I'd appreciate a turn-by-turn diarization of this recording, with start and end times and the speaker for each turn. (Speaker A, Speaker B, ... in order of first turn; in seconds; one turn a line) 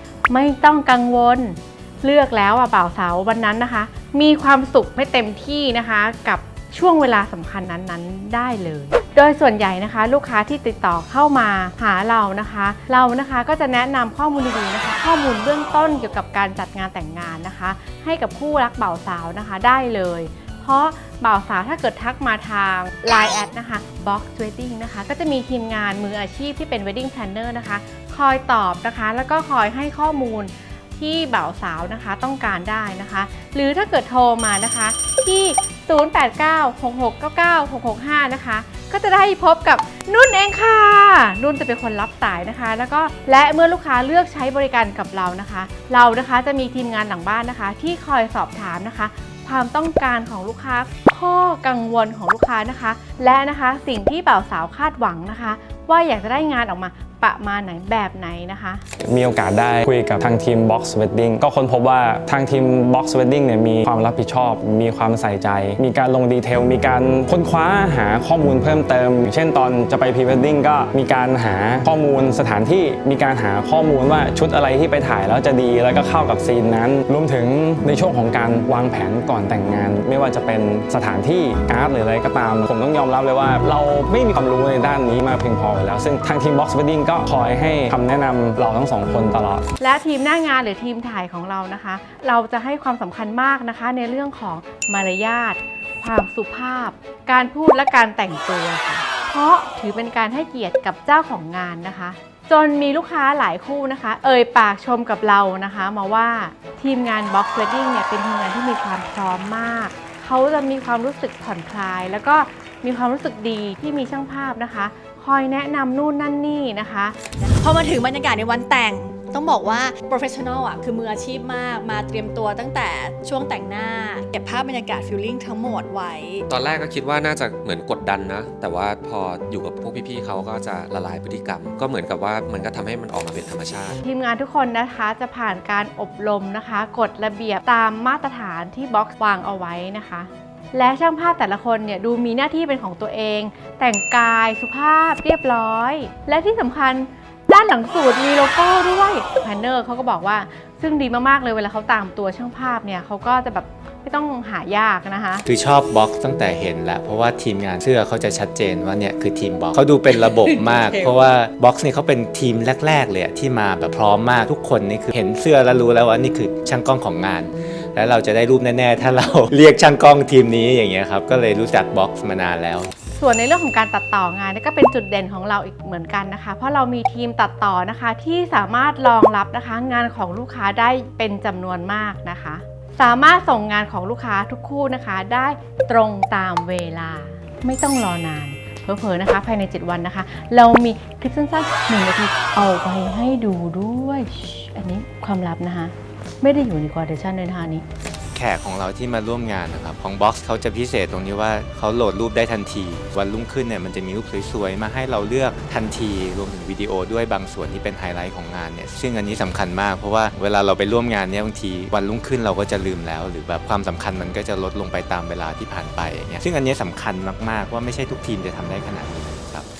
Speaker A: 0.3-58.8
Speaker B: 59.0-89.6
Speaker A: 89.8-117.3
Speaker C: 117.4-126.4
Speaker D: 126.5-134.0
Speaker A: 134.0-155.4
Speaker E: 155.4-172.9
Speaker C: 160.7-161.1
Speaker A: 173.2-197.8
Speaker E: 198.3-219.7